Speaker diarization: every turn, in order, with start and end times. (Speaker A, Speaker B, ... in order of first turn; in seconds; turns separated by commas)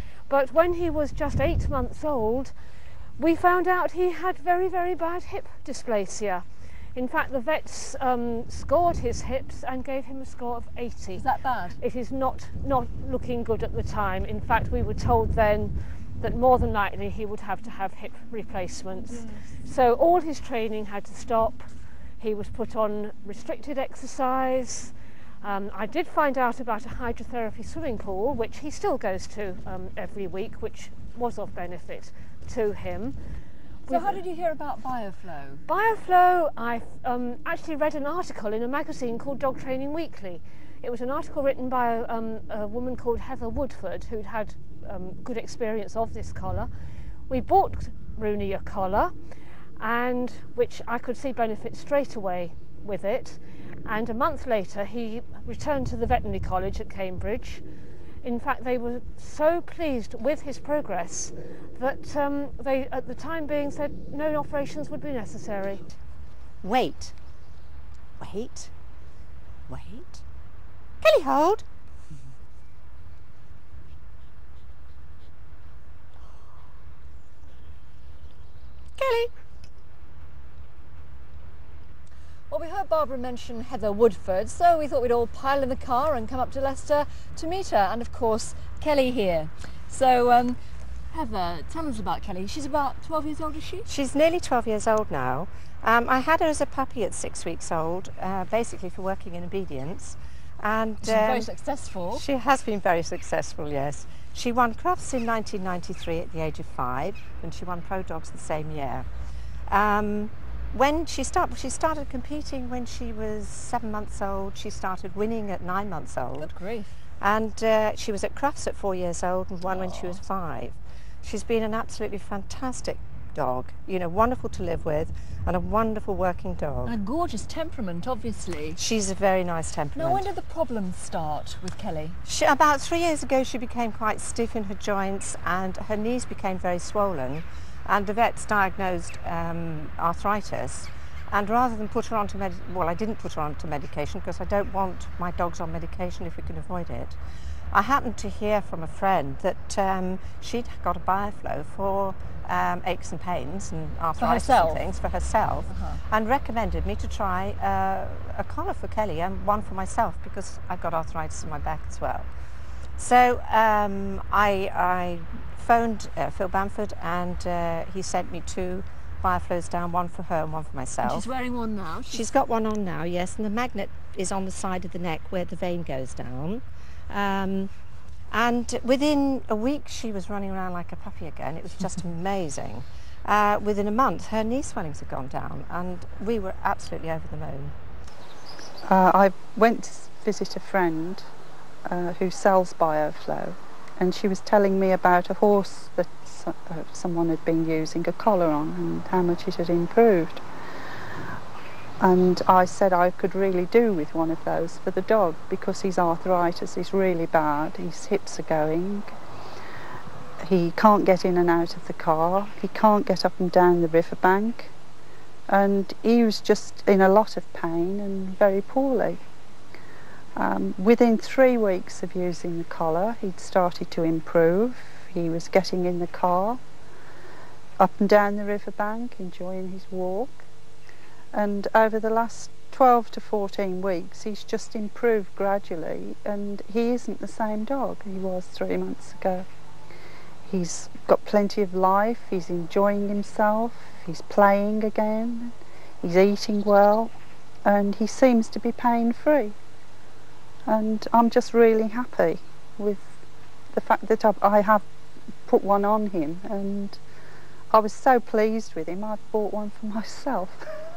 Speaker A: 0.3-2.5, Speaker A: 3.2-11.2, Speaker B: 11.1-11.8, Speaker A: 11.8-33.1, Speaker B: 19.1-19.4, Speaker A: 33.8-34.2, Speaker B: 33.9-35.6, Speaker A: 35.6-46.7, Speaker A: 47.3-49.1, Speaker A: 49.8-57.6, Speaker A: 58.2-65.9, Speaker C: 66.6-67.1, Speaker C: 68.2-68.7, Speaker C: 69.7-70.2, Speaker C: 71.0-71.6, Speaker C: 79.0-79.3, Speaker B: 82.5-90.6, Speaker B: 91.1-93.9, Speaker C: 93.9-101.5, Speaker B: 101.0-102.2, Speaker C: 102.1-109.0, Speaker C: 109.7-116.5, Speaker B: 116.4-117.0, Speaker C: 117.2-126.9, Speaker B: 119.7-120.2, Speaker B: 126.8-128.8, Speaker C: 128.8-130.3, Speaker B: 129.9-132.2, Speaker C: 132.2-147.2, Speaker C: 147.7-162.3, Speaker B: 154.2-154.8, Speaker B: 155.7-156.0, Speaker C: 163.0-171.3, Speaker B: 171.0-172.3, Speaker C: 172.1-177.7, Speaker C: 178.3-187.7, Speaker D: 188.9-191.2, Speaker D: 191.9-200.4, Speaker D: 202.0-209.1, Speaker D: 210.4-214.7, Speaker D: 215.5-219.2, Speaker D: 220.4-226.6, Speaker D: 227.8-230.4, Speaker D: 231.3-239.4, Speaker D: 240.4-247.1, Speaker D: 247.6-249.5, Speaker D: 250.7-253.2, Speaker D: 253.7-254.8, Speaker D: 255.4-257.0, Speaker D: 257.7-260.6